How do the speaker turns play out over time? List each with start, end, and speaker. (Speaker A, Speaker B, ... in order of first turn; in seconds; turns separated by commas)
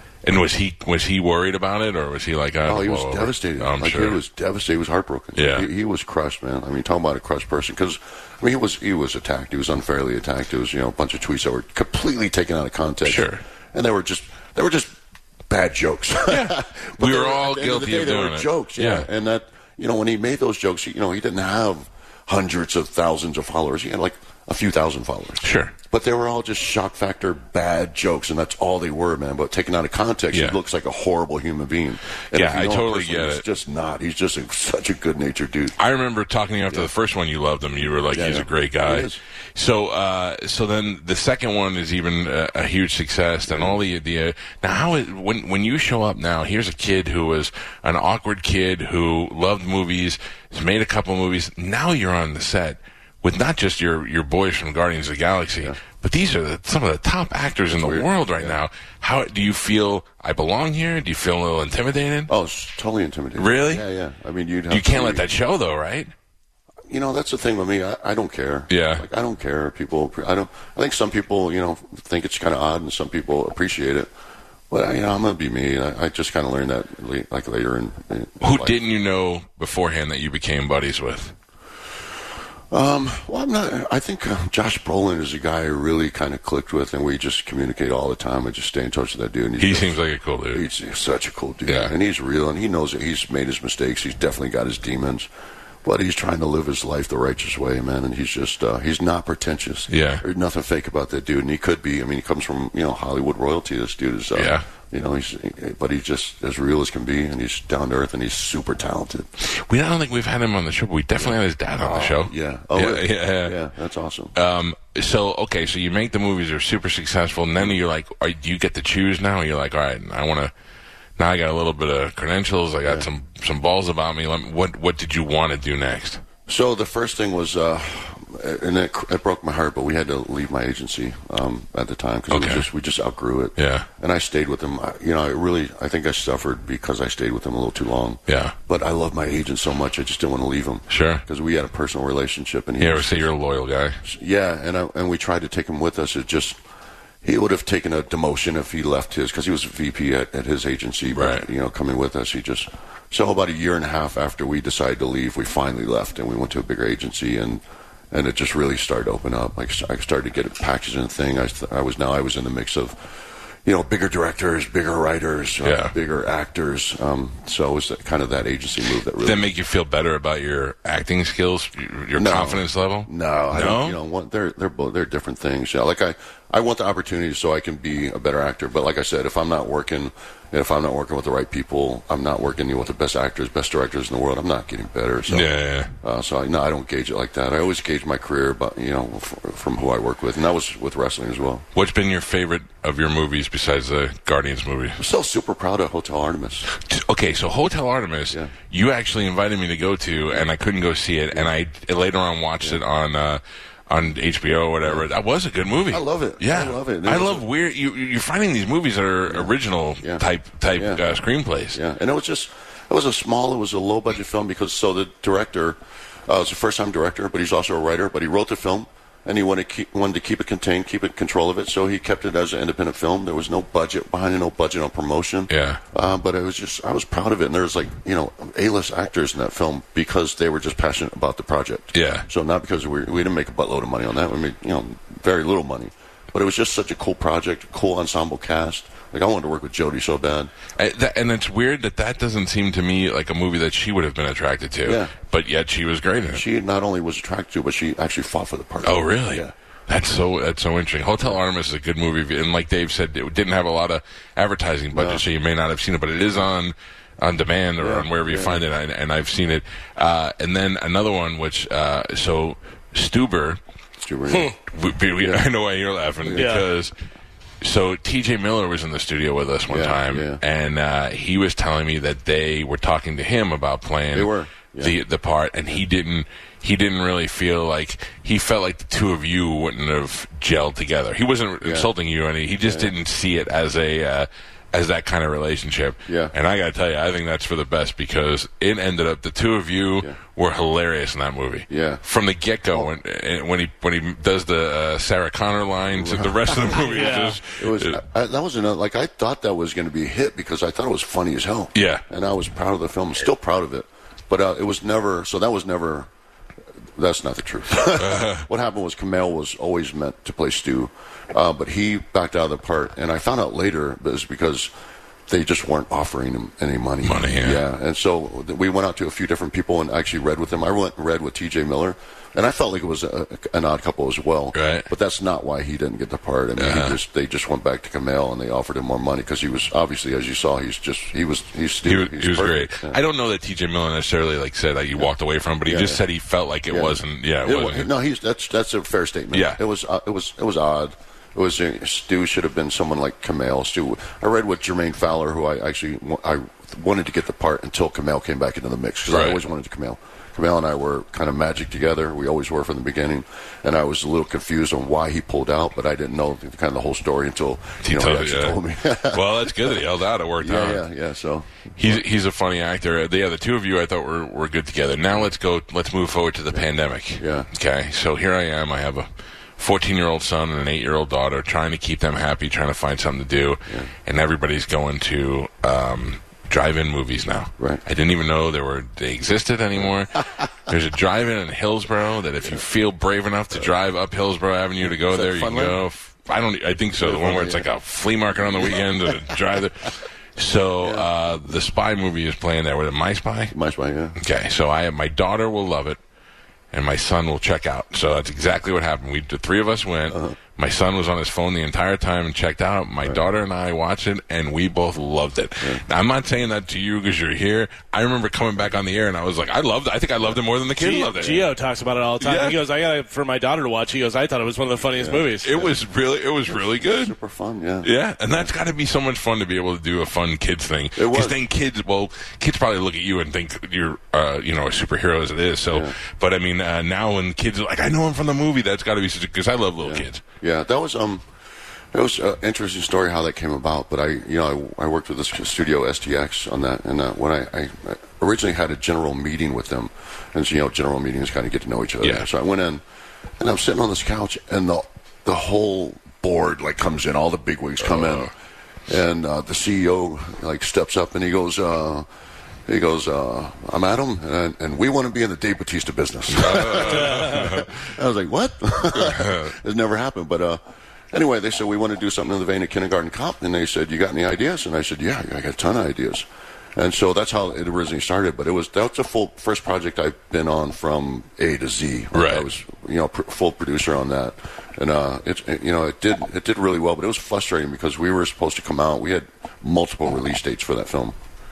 Speaker A: 0.2-4.2, Speaker B: 2.6-14.9, Speaker A: 5.3-5.7, Speaker A: 13.0-13.4, Speaker B: 15.5-35.8, Speaker A: 16.3-19.1, Speaker A: 25.4-25.7, Speaker A: 30.3-30.6, Speaker A: 32.3-33.4, Speaker A: 35.8-62.3, Speaker B: 38.1-39.2, Speaker B: 43.5-43.8, Speaker B: 57.8-58.6, Speaker B: 62.3-65.2, Speaker A: 63.4-63.8, Speaker A: 64.7-66.1, Speaker B: 66.9-74.1, Speaker A: 68.7-69.0, Speaker B: 74.7-78.8, Speaker A: 78.4-81.3, Speaker B: 82.7-90.0, Speaker A: 89.6-90.7, Speaker B: 90.5-95.3, Speaker A: 91.7-91.9, Speaker B: 95.8-109.3, Speaker A: 99.9-100.2, Speaker A: 104.3-104.6, Speaker A: 109.4-113.6, Speaker B: 111.8-114.3, Speaker A: 114.3-120.5, Speaker A: 121.2-126.2, Speaker B: 126.5-143.3, Speaker A: 132.3-132.7, Speaker A: 133.6-133.9, Speaker A: 138.3-138.5, Speaker A: 140.9-141.2, Speaker A: 142.8-144.0, Speaker B: 144.0-146.6, Speaker B: 147.2-169.5, Speaker A: 151.1-151.4, Speaker A: 165.6-165.9, Speaker A: 169.2-174.0, Speaker B: 172.1-191.7, Speaker A: 185.3-185.9, Speaker A: 191.7-195.0, Speaker B: 195.0-196.7, Speaker A: 196.8-211.8, Speaker B: 205.9-207.5, Speaker B: 209.3-211.2, Speaker B: 211.7-240.5, Speaker A: 225.5-225.8, Speaker A: 231.9-232.2, Speaker A: 240.8-246.4, Speaker B: 244.8-245.1, Speaker B: 246.3-249.5, Speaker A: 248.8-263.6, Speaker B: 254.9-255.2, Speaker B: 257.8-258.6, Speaker B: 264.0-264.5, Speaker A: 264.7-266.9, Speaker B: 266.2-266.6, Speaker C: 266.3-266.6, Speaker A: 267.6-298.0, Speaker B: 269.7-270.4, Speaker B: 274.1-274.9, Speaker B: 281.6-281.9, Speaker B: 282.6-282.9, Speaker B: 286.1-286.3, Speaker B: 291.7-292.0, Speaker B: 295.9-306.1, Speaker C: 296.9-297.4, Speaker A: 301.7-302.0, Speaker B: 306.9-314.7, Speaker A: 307.9-308.4, Speaker B: 315.3-333.0, Speaker A: 317.0-317.6, Speaker A: 324.5-324.9, Speaker A: 326.6-327.0, Speaker A: 331.8-337.9, Speaker B: 335.6-336.0, Speaker B: 336.7-359.8, Speaker A: 339.3-339.6, Speaker A: 349.1-349.4, Speaker A: 357.8-360.8, Speaker B: 360.4-362.0, Speaker A: 361.8-369.1, Speaker B: 367.2-367.5, Speaker A: 369.6-393.5, Speaker B: 384.8-385.8, Speaker B: 387.0-387.7, Speaker B: 388.4-389.1, Speaker B: 390.8-391.1, Speaker B: 393.5-394.2, Speaker A: 394.2-396.0, Speaker A: 396.7-411.5, Speaker B: 400.1-400.4, Speaker C: 410.8-415.6, Speaker A: 412.2-412.6, Speaker B: 414.9-415.7, Speaker A: 415.4-417.1, Speaker B: 416.8-418.5, Speaker A: 417.8-430.2, Speaker B: 420.9-421.4, Speaker B: 425.7-426.0, Speaker B: 429.8-431.2, Speaker B: 431.9-442.8, Speaker A: 442.0-442.3, Speaker B: 443.4-448.3, Speaker A: 447.9-448.3, Speaker B: 448.9-452.1, Speaker B: 452.6-460.6, Speaker A: 456.3-457.8, Speaker A: 459.0-459.5, Speaker B: 461.1-481.1, Speaker A: 472.1-472.5